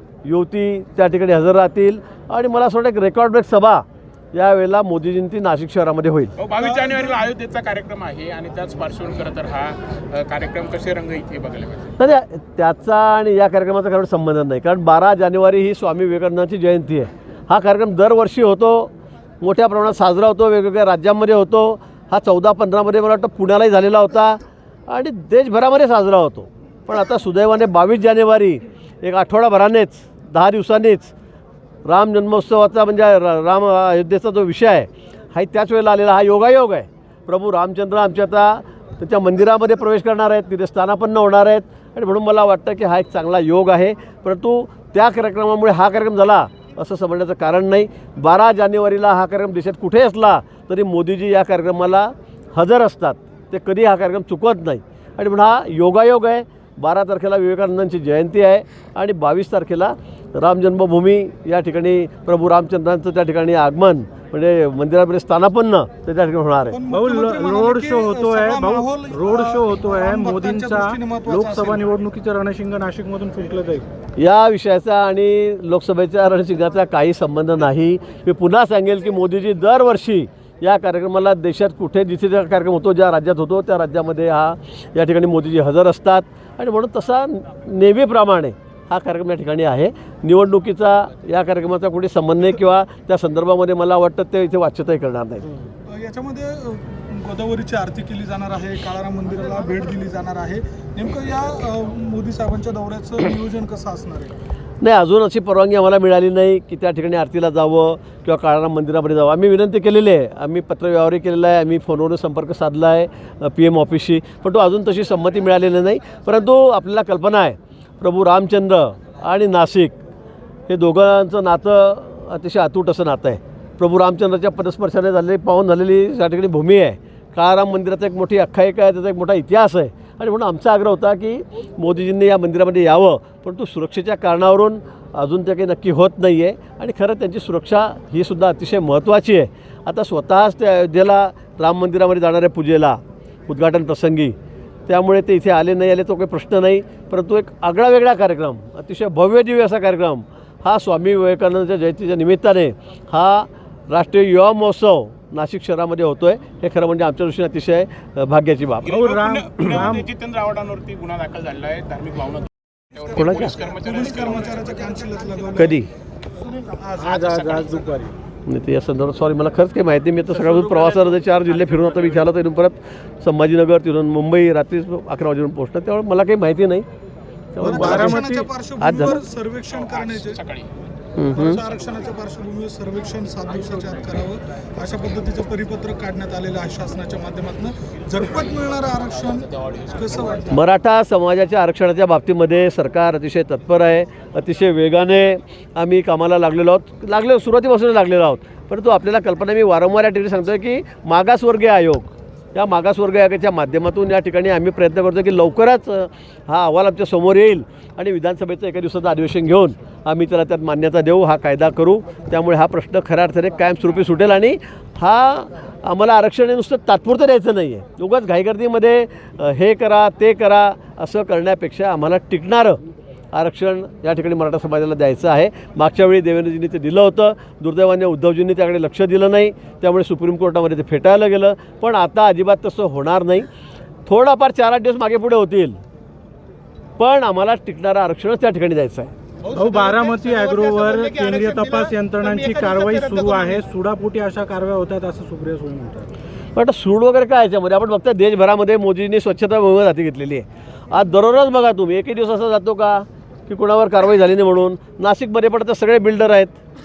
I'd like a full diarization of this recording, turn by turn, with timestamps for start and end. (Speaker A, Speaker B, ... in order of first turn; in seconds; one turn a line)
Speaker A: 0.2-6.4
Speaker B: 6.4-11.9
Speaker C: 6.6-7.2
Speaker A: 12.0-31.1
Speaker A: 31.9-66.8
Speaker C: 66.7-71.9
Speaker D: 66.9-73.9
Speaker A: 74.2-95.5
Speaker C: 95.9-104.3
Speaker A: 104.8-120.0
Speaker A: 120.7-144.3
Speaker A: 144.9-158.9
Speaker B: 158.8-165.2
Speaker D: 158.9-160.1
Speaker A: 163.2-163.6
Speaker C: 163.4-165.8
Speaker A: 165.6-165.9
Speaker C: 166.5-167.9
Speaker D: 167.0-168.1
Speaker A: 168.5-176.9
Speaker A: 177.5-178.2
Speaker D: 177.6-178.5
Speaker C: 177.6-180.4
Speaker A: 178.8-179.2
Speaker B: 179.7-180.7
Speaker A: 181.2-181.6
Speaker C: 181.3-190.6
Speaker B: 188.2-190.5
Speaker A: 190.5-222.8
Speaker A: 223.3-233.5
Speaker A: 234.1-235.8
Speaker A: 237.0-239.1
Speaker B: 239.4-243.6
Speaker D: 239.5-246.1
Speaker A: 246.6-256.6